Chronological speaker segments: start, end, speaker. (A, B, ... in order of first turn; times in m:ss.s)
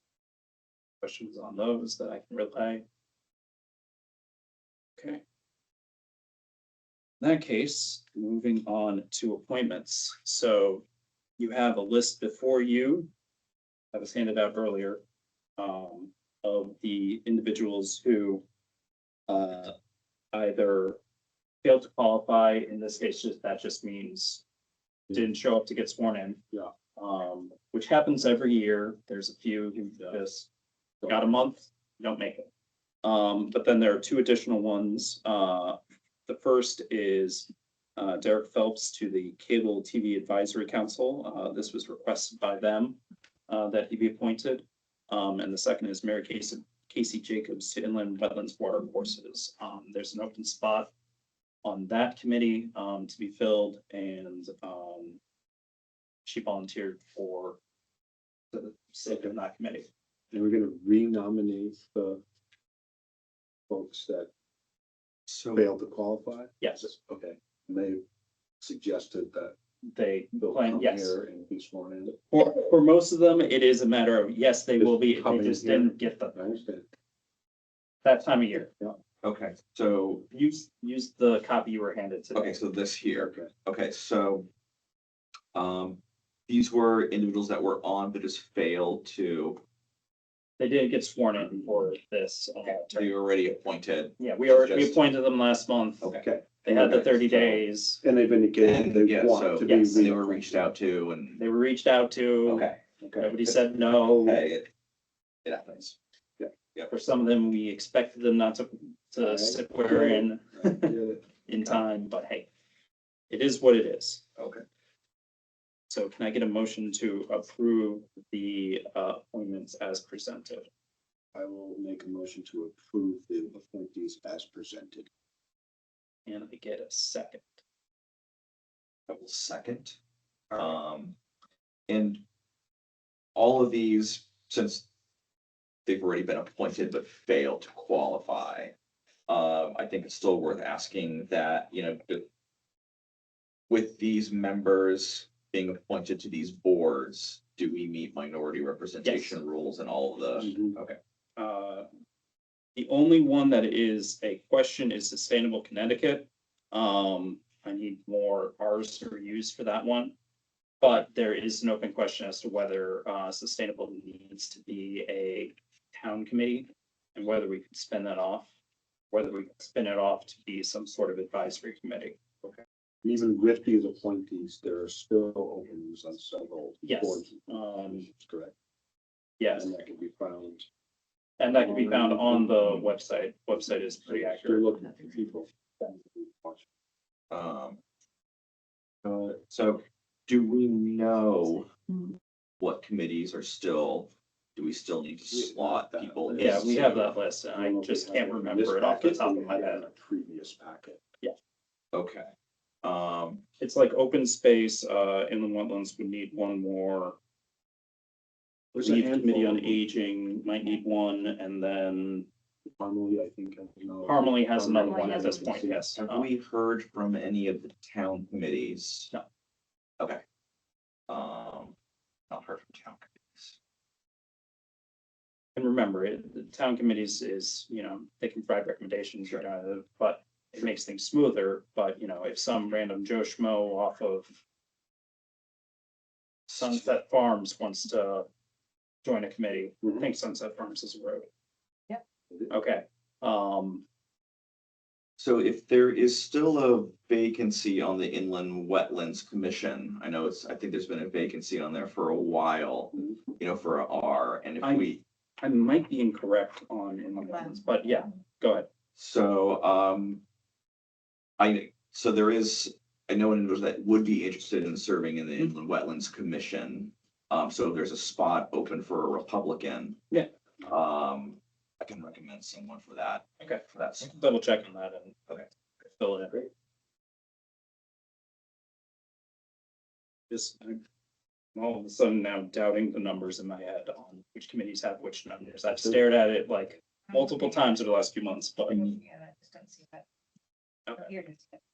0:01.0-0:02.8 A
0:05.0-0:05.2 A
0:07.2-0:10.8 A
0:11.4-0:13.1 A
0:13.9-0:15.0 A
0:15.6-0:18.4 A
0:19.3-0:19.7 A
0:20.3-0:21.0 A
0:21.6-0:24.4 A
0:25.1-0:26.4 A
0:27.0-0:30.5 A
0:29.9-0:30.2 B
0:31.0-0:31.4 B
0:31.1-0:32.5 A
0:33.0-0:50.9 A
0:51.6-0:55.2 A
0:56.2-0:57.6 A
0:58.5-0:59.9 A
0:59.1-0:59.4 B
1:00.3-1:02.2 B
1:03.7-1:04.3 B
1:05.3-1:05.6 C
1:05.5-1:08.0 B
1:06.6-1:06.9 A
1:08.6-1:09.6 B
1:09.9-1:11.2 A
1:10.4-1:12.2 B
1:12.3-1:16.4 A
1:14.8-1:16.9 B
1:18.0-1:18.7 A
1:19.2-1:20.3 C
1:20.3-1:22.6 A
1:22.4-1:24.5 C
1:23.2-1:23.5 B
1:25.5-1:29.6 C
1:30.6-1:33.1 A
1:31.4-1:31.9 B
1:32.6-1:35.0 C
1:34.2-1:36.1 A
1:36.2-1:40.6 B
1:36.6-1:38.0 A
1:38.6-1:41.4 C
1:39.6-1:40.1 A
1:41.4-1:44.4 A
1:42.4-1:43.5 C
1:44.2-1:44.7 C
1:45.4-1:46.0 C
1:46.9-1:50.9 A
1:49.2-1:51.2 B
1:51.5-1:52.5 A
1:53.3-1:54.2 A
1:54.4-1:54.6 C
1:55.9-2:00.7 A
2:01.4-2:05.1 B
2:06.3-2:07.5 A
2:09.1-2:10.0 C
2:10.5-2:11.2 C
2:11.9-2:12.2 C
2:13.4-2:14.8 C
2:15.9-2:18.7 C
2:19.3-2:22.3 C
2:23.7-2:31.0 C
2:29.0-2:29.4 A
2:30.4-2:30.8 B
2:31.4-2:31.9 A
2:32.8-2:40.2 A
2:40.8-2:48.5 A
2:49.1-2:52.2 A
2:52.4-2:58.5 B
2:56.8-2:58.1 A
2:59.4-2:59.7 A
2:59.5-3:00.6 B
3:01.4-3:04.7 A
3:01.5-3:03.0 B
3:04.0-3:06.6 B
3:07.3-3:07.8 C
3:09.0-3:09.4 B
3:09.5-3:11.7 C
3:11.7-3:12.2 D
3:12.6-3:17.0 C
3:15.3-3:21.0 B
3:16.4-3:19.8 A
3:21.9-3:22.3 C
3:22.8-3:23.4 C
3:23.6-3:27.2 A
3:28.8-3:29.8 B
3:28.8-3:32.3 A
3:32.8-3:35.8 B
3:34.1-3:36.3 A
3:34.8-3:35.6 D
3:35.9-3:39.1 C
3:41.1-3:41.8 C
3:42.3-3:43.6 C
3:45.6-3:54.3 A
3:56.5-3:56.9 C
3:56.6-3:58.2 A
3:59.0-4:01.3 A
4:02.5-4:03.8 A
4:05.2-4:15.0 C
4:14.6-4:14.9 A
4:15.4-4:18.7 A
4:17.2-4:18.0 D
4:19.0-4:20.2 C
4:21.4-4:30.0 C
4:30.6-4:34.2 C
4:33.4-4:35.2 A
4:36.0-4:36.5 A
4:40.3-4:40.8 A
4:41.6-4:48.8 A
4:47.1-4:47.8 D
4:48.7-4:50.0 D
4:48.7-4:49.0 C
4:51.0-4:51.6 D